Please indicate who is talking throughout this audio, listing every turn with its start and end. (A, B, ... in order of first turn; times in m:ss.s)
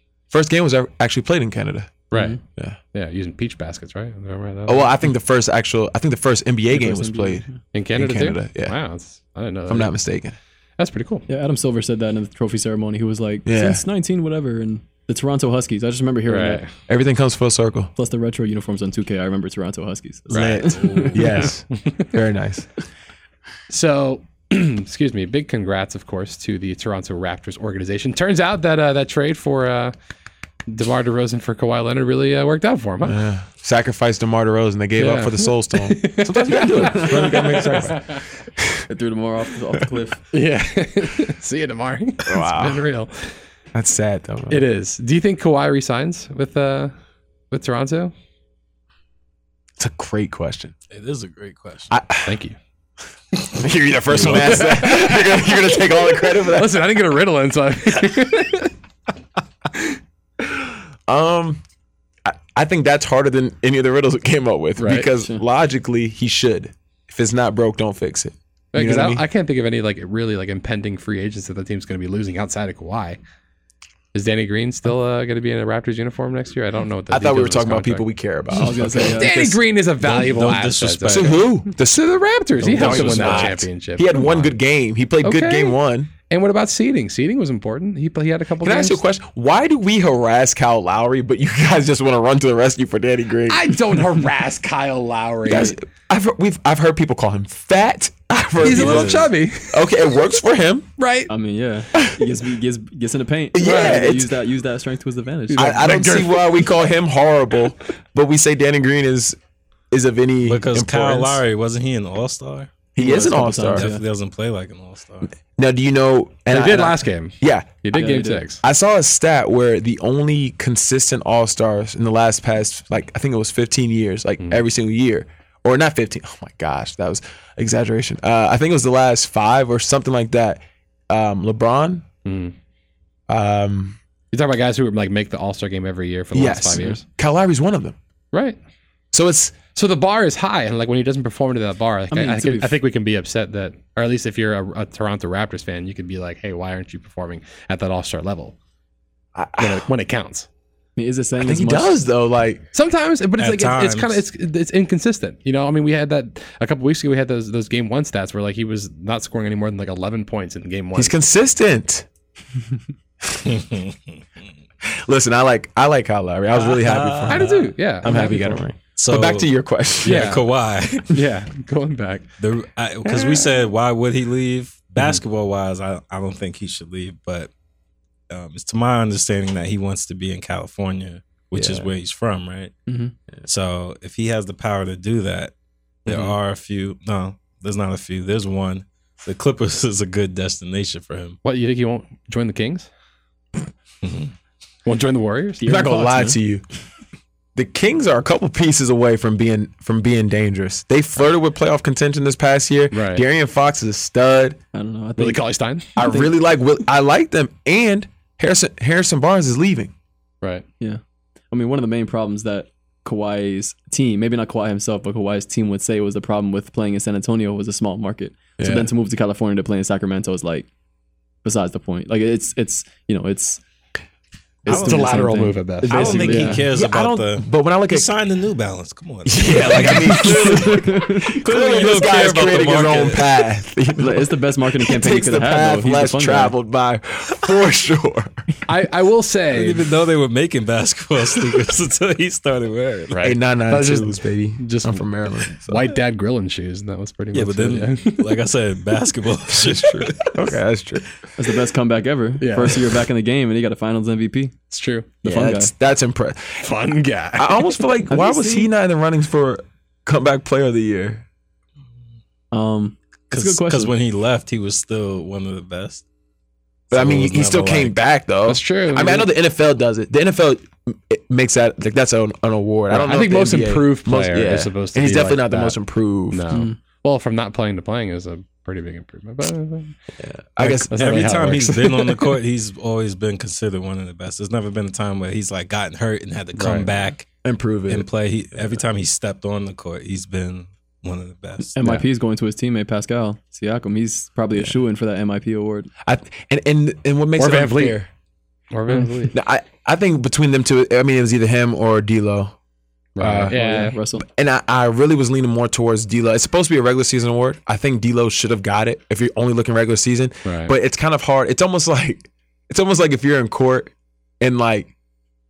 0:00.3-0:02.8 A
0:02.1-0:02.4 B
0:02.1-0:02.4 C
0:02.9-0:04.9 B
0:04.7-0:07.4 A
0:06.7-0:07.6 C
0:07.7-0:09.9 B
0:08.0-0:08.8 A
0:09.7-0:10.4 A
0:10.8-0:11.3 B
0:11.3-0:16.6 C
0:13.4-0:13.8 A
0:16.3-0:16.7 B
0:16.9-0:17.9 A
0:18.0-0:21.4 C
0:20.3-0:22.0 B
0:20.3-0:22.7 A
0:20.7-0:21.3 D
0:23.7-0:29.9 B
0:30.7-0:33.2 B
0:33.0-0:38.9 A
0:35.0-0:38.3 B
0:37.0-0:37.4 C
0:38.9-0:40.2 C
0:40.3-0:43.4 B
0:42.3-0:42.8 A
0:43.7-0:44.6 A
0:44.5-0:46.9 B
0:47.5-0:48.1 B
0:49.8-0:50.7 A
0:50.9-0:51.9 D
0:51.9-0:52.4 A
0:52.2-0:52.6 B
0:53.5-0:56.8 A
0:54.1-0:55.6 B
0:54.1-0:54.7 D
0:56.3-0:58.7 B
1:00.5-1:01.6 A
1:02.2-1:09.2 A
1:04.8-1:05.1 B
1:08.7-1:13.2 B
1:14.1-1:18.1 B
1:17.1-1:19.6 A
1:18.5-1:19.3 C
1:19.1-1:24.6 B
1:20.0-1:21.4 D
1:21.1-1:22.1 A
1:22.6-1:26.1 A
1:22.6-1:23.6 D
1:25.2-1:25.8 B
1:26.3-1:29.0 B
1:28.6-1:33.8 A
1:33.5-1:35.8 B
1:35.5-1:40.9 A
1:38.6-1:39.9 B
1:38.6-1:39.3 D
1:41.0-1:41.3 B
1:41.3-1:46.0 C
1:43.5-1:44.3 A
1:43.6-1:44.0 B
1:45.5-1:46.5 B
1:45.6-1:49.4 A
1:49.9-1:51.4 A
1:50.4-1:52.8 D
1:53.0-1:53.9 A
1:53.0-1:54.0 C
1:53.7-1:55.3 D
1:55.6-1:58.0 A
1:56.5-1:58.6 B
1:58.0-1:58.4 C
1:58.6-2:12.0 A
2:12.2-2:12.6 B
2:13.3-2:14.0 A
2:14.3-2:17.0 B
2:16.3-2:18.0 A
2:19.1-2:19.6 A
2:19.7-2:28.6 B
2:22.1-2:22.8 C
2:29.4-2:29.9 A
2:29.6-2:30.5 B
2:31.0-2:32.0 C
2:31.4-2:32.6 A
2:32.7-2:41.2 B
2:33.4-2:34.2 D
2:41.0-2:42.1 A
2:43.4-2:44.0 D
2:44.9-2:50.4 A
2:46.6-2:47.7 D
2:47.3-2:48.6 B
2:49.0-2:51.2 D
2:50.0-2:50.4 B
2:51.1-2:52.3 B
2:52.4-2:57.5 D
2:53.1-2:53.5 A
2:58.3-3:02.7 D
3:01.5-3:01.9 A
3:02.9-3:03.1 C
3:03.4-3:05.5 D
3:06.1-3:11.4 D
3:06.1-3:06.3 B
3:11.4-3:12.9 B
3:14.0-3:14.3 D
3:14.8-3:15.6 B
3:15.6-3:16.4 C
3:15.6-3:16.6 A
3:17.6-3:24.6 A
3:22.9-3:23.2 B
3:24.7-3:25.4 C
3:25.2-3:25.9 B
3:26.0-3:29.9 A
3:26.0-3:26.3 C
3:30.8-3:40.7 C
3:38.6-3:38.9 A
3:41.4-3:43.6 C
3:44.7-3:46.7 C
3:44.7-3:46.6 B
3:45.8-3:48.1 A
3:45.8-3:53.4 D
3:49.3-3:58.4 A
3:50.0-3:51.3 C
3:54.0-3:56.6 C
3:58.7-3:59.9 B
3:59.5-4:03.2 D
4:03.1-4:08.4 B
4:03.2-4:05.8 A
4:07.3-4:10.4 D
4:09.6-4:11.1 A
4:11.4-4:14.5 C
4:12.4-4:12.9 B
4:14.7-4:15.1 B
4:15.2-4:15.7 C
4:15.2-4:16.7 A
4:16.6-4:17.9 B
4:17.4-4:21.2 A
4:18.1-4:18.7 C
4:22.5-4:23.9 C
4:23.3-4:26.0 D
4:26.9-4:28.0 D
4:26.9-4:36.4 A
4:28.5-4:29.3 B
4:32.9-4:35.8 B
4:36.3-4:40.0 B
4:36.5-4:36.8 C
4:40.2-4:41.7 A
4:40.6-4:47.3 D
4:40.6-4:41.9 B
4:46.6-4:46.9 B
4:47.4-4:48.1 A
4:47.9-4:51.8 D
4:51.8-4:55.9 C
4:56.0-4:58.1 A
4:57.4-4:58.0 B
4:58.7-4:59.4 B
4:59.3-5:02.6 A
5:03.2-5:04.0 B
5:03.2-5:14.9 A
5:03.5-5:04.2 C
5:10.4-5:10.7 B